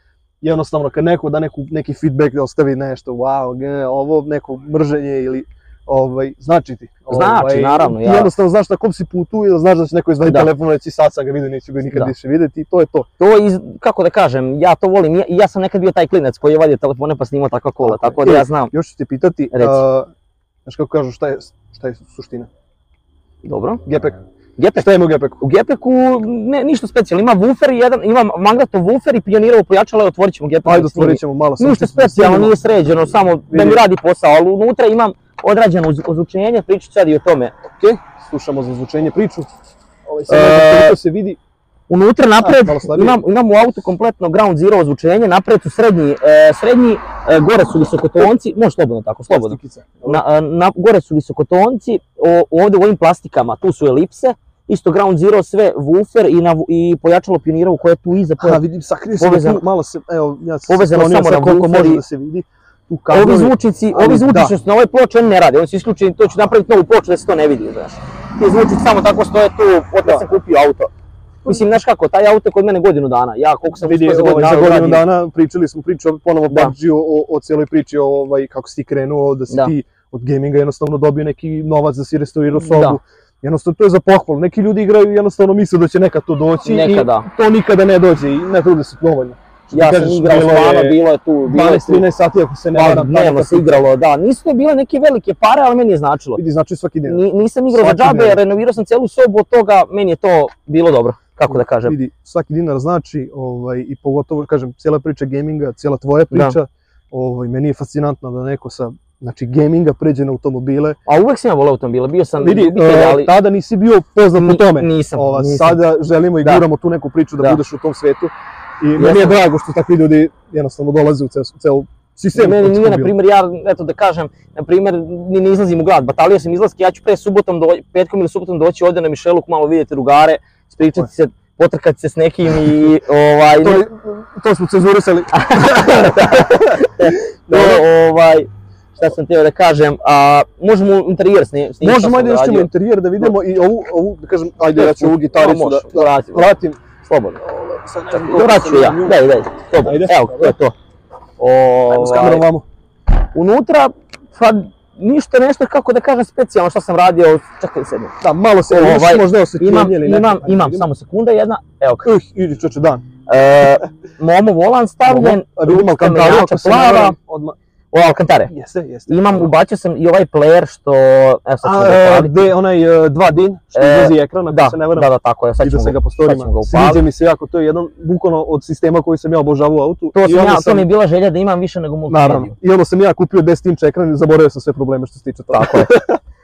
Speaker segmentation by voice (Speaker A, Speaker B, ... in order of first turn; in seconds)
Speaker A: 0.4-13.1, 17.8-20.1, 20.6-22.5, 23.9-24.2, 24.8-25.4, 30.6-32.5, 33.5-33.8, 37.8-39.5, 40.1-41.4, 42.4-43.2, 49.3-50.2, 58.4-64.5, 70.0-70.3, 71.4-71.7, 73.8-93.8, 96.3-98.4, 101.5-111.0, 112.4-123.1, 133.6-137.8, 141.8-146.8, 147.4-150.6, 151.9-152.7, 158.2-160.9, 162.0-163.0, 165.1-167.6, 168.5-169.5, 171.6-180.9, 182.1-186.2
Speaker B: 7.1-8.3, 10.2-10.5, 13.2-18.7, 19.5-19.8, 23.4-23.8, 24.6-37.5, 40.3-41.0, 41.9-58.6, 59.2-59.6, 60.7-62.0, 63.1-70.9, 71.5-75.1, 76.5-76.7, 82.6-83.0, 86.6-87.3, 89.7-92.1, 92.7-96.4, 97.0-102.0, 106.3-106.6, 111.1-113.3, 114.3-115.8, 119.0-119.4, 122.3-133.9, 135.3-143.3, 144.7-147.4, 148.1-150.8, 151.4-152.5, 153.3-158.1, 158.7-162.1, 163.3-167.2, 167.9-168.5, 169.1-172.5, 173.7-177.0, 180.1-182.5, 185.5-185.9